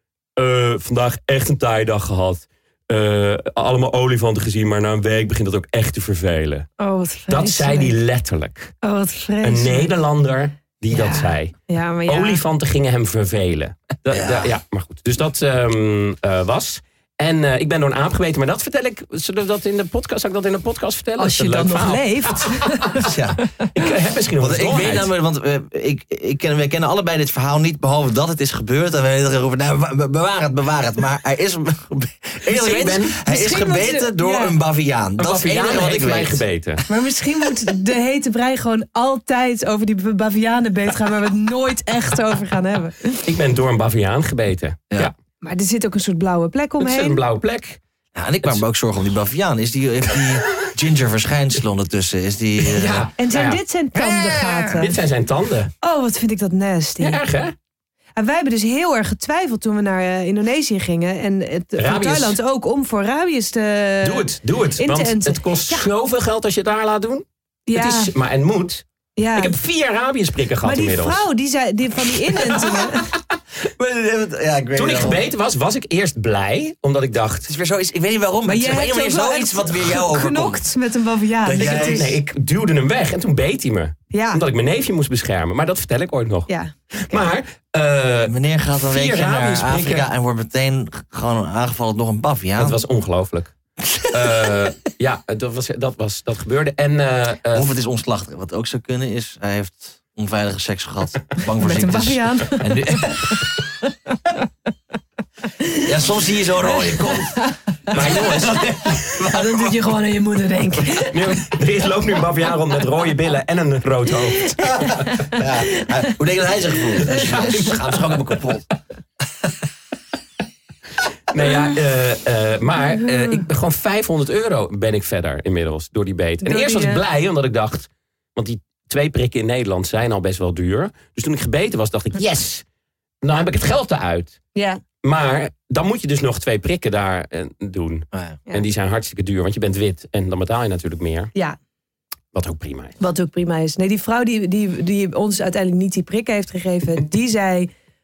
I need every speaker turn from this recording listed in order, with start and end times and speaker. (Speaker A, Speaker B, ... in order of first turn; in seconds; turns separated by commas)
Speaker A: 0.4-6.7, Speaker B: 6.8-7.9, Speaker A: 7.3-8.7, Speaker B: 8.8-9.9, Speaker A: 9.4-11.5, Speaker B: 10.9-12.4, Speaker A: 12.1-23.0, Speaker C: 14.1-14.5, Speaker B: 21.2-23.7, Speaker C: 23.0-23.4, Speaker A: 23.7-25.1, Speaker C: 24.4-36.4, Speaker A: 32.5-33.2, Speaker B: 33.2-34.5, Speaker A: 35.2-36.8, Speaker B: 36.9-43.3, Speaker A: 43.2-45.1, Speaker B: 45.4-47.2, Speaker A: 46.8-47.8, Speaker C: 48.1-53.1, Speaker A: 52.6-53.6, Speaker B: 53.1-55.0, Speaker C: 54.1-54.7, Speaker A: 54.7-55.7, Speaker B: 55.8-57.2, Speaker A: 57.0-57.5, Speaker B: 58.2-65.9, Speaker A: 61.8-62.4, Speaker A: 64.0-68.8, Speaker B: 67.7-68.1, Speaker B: 69.2-69.5, Speaker A: 69.3-71.2, Speaker B: 70.6-73.1, Speaker A: 72.3-73.2, Speaker C: 73.8-75.2, Speaker A: 74.7-77.5, Speaker C: 77.4-80.6, Speaker B: 78.5-82.1, Speaker C: 81.4-82.2, Speaker A: 81.6-90.0, Speaker B: 84.1-84.4, Speaker B: 86.5-87.2, Speaker C: 88.2-92.8, Speaker A: 92.6-93.5, Speaker C: 93.8-94.6, Speaker A: 94.1-97.7, Speaker C: 97.5-103.5, Speaker B: 101.6-104.4, Speaker B: 105.6-105.9, Speaker C: 105.8-109.8, Speaker B: 106.6-108.6, Speaker A: 107.9-109.2, Speaker B: 109.2-111.4, Speaker A: 111.1-114.7, Speaker B: 114.4-116.1, Speaker C: 114.6-118.6, Speaker B: 117.0-117.7, Speaker A: 117.0-118.4, Speaker A: 121.3-132.6, Speaker B: 123.0-123.4, Speaker B: 126.4-127.0, Speaker A: 133.2-134.4, Speaker B: 134.5-134.8, Speaker A: 135.0-141.3, Speaker C: 138.1-138.4, Speaker A: 142.3-142.9, Speaker B: 143.0-147.7